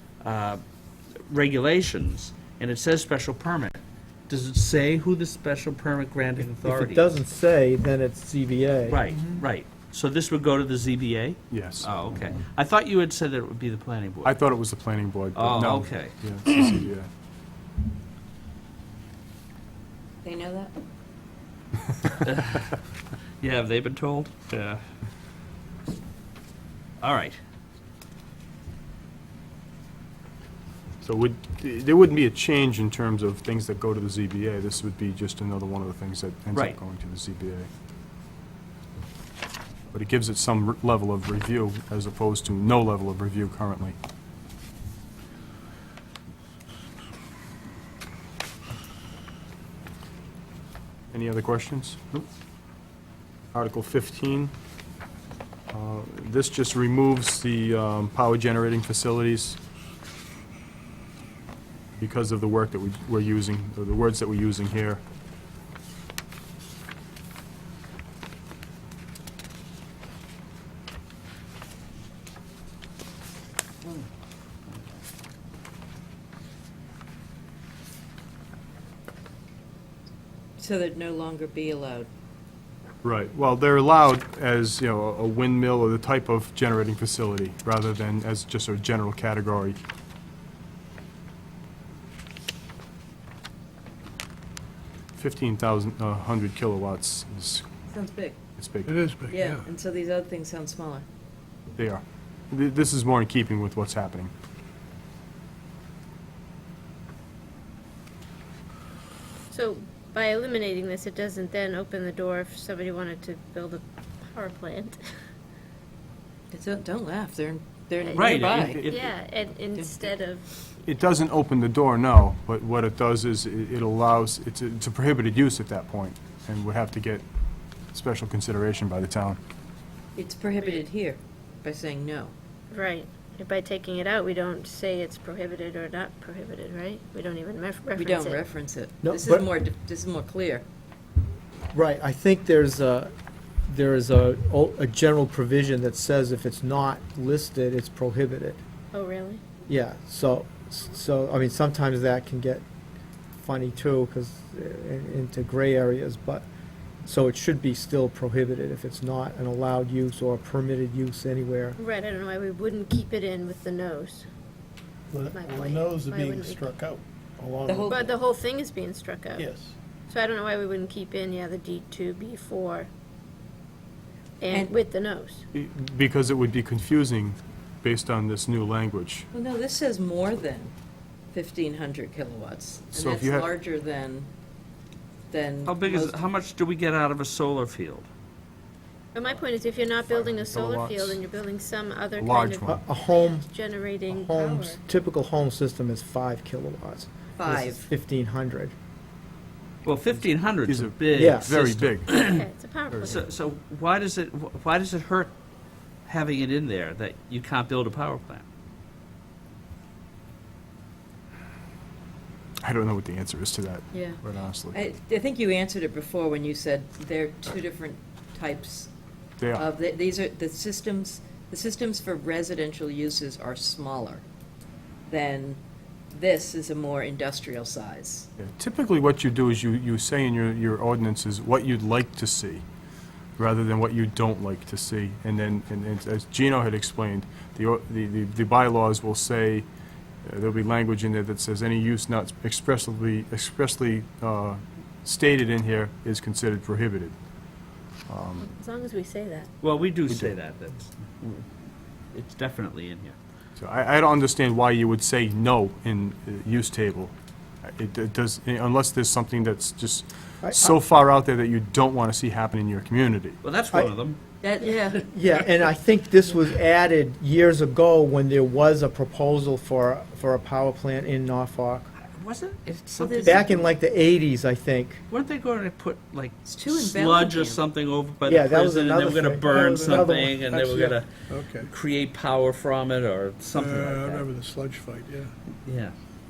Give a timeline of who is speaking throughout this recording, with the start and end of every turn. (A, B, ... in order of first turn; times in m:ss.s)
0:00.2-0:00.6 A
0:01.3-0:07.2 A
0:06.6-0:09.0 B
0:08.9-0:14.4 A
0:11.5-0:11.9 C
0:14.2-0:17.1 C
0:15.4-0:16.7 A
0:20.2-0:20.7 D
0:22.2-0:22.8 A
0:23.4-0:24.8 A
0:27.0-0:27.4 A
0:31.0-0:37.7 C
0:36.5-0:36.8 A
0:39.9-0:44.0 C
0:51.1-0:52.2 C
0:53.5-0:54.5 C
0:55.7-0:59.6 C
1:02.0-1:05.0 C
1:20.6-1:22.1 D
1:23.0-1:29.8 C
1:35.2-1:37.7 C
1:37.9-1:38.4 D
1:38.6-1:38.9 C
1:38.9-1:39.6 E
1:39.3-1:41.1 D
1:41.8-1:44.3 C
1:49.5-1:55.0 F
1:56.5-1:59.0 D
1:58.1-2:00.5 F
1:58.1-1:58.7 A
1:58.4-1:59.1 C
1:59.7-2:00.1 D
2:00.8-2:07.2 C
2:07.9-2:09.4 C
2:10.2-2:12.3 D
2:12.7-2:18.4 F
2:18.0-2:20.6 D
2:19.0-2:19.5 B
2:21.7-2:23.1 B
2:23.7-2:28.6 B
2:28.9-2:29.4 F
2:29.7-2:32.6 B
2:33.4-2:36.5 B
2:37.0-2:41.8 B
2:41.8-2:44.3 F
2:45.1-2:48.0 E
2:45.3-2:46.8 F
2:47.7-2:48.2 D
2:47.9-2:49.5 F
2:49.4-2:49.8 E
2:50.1-2:52.9 F
2:54.4-2:55.4 F
2:54.5-2:54.8 D
2:55.5-2:59.3 C
2:59.3-3:00.7 D
3:01.3-3:04.3 D
3:02.9-3:03.5 C
3:05.3-3:06.2 D
3:05.7-3:08.1 A
3:09.2-3:14.8 F
3:09.8-3:11.2 C
3:12.2-3:12.8 C
3:12.7-3:13.5 B
3:14.1-3:18.8 B
3:17.4-3:17.9 D
3:19.8-3:22.5 A
3:20.6-3:22.2 C
3:21.1-3:21.5 B
3:22.2-3:23.2 F
3:22.9-3:23.2 C
3:23.0-3:25.3 A
3:26.1-3:28.4 A
3:32.6-3:34.8 C
3:33.9-3:38.9 D
3:39.4-3:39.6 C
3:39.5-3:44.2 D
3:45.1-3:45.6 D
3:46.1-3:48.3 D
3:48.4-3:52.6 C
3:53.4-3:59.7 C
4:00.2-4:07.2 C
4:08.1-4:08.5 C
4:08.4-4:09.5 F
4:09.6-4:11.5 A
4:12.1-4:13.2 A
4:13.6-4:23.4 C
4:20.4-4:20.8 B
4:23.4-4:24.2 A
4:24.4-4:25.1 D
4:25.1-4:31.9 B
4:32.1-4:33.6 A
4:33.0-4:33.7 D
4:33.2-4:35.0 B
4:35.1-4:44.3 A
4:36.4-4:37.6 D
4:38.2-4:41.0 B
4:40.5-4:40.8 E
4:41.3-4:41.7 E
4:43.5-4:45.3 E
4:45.7-4:46.0 A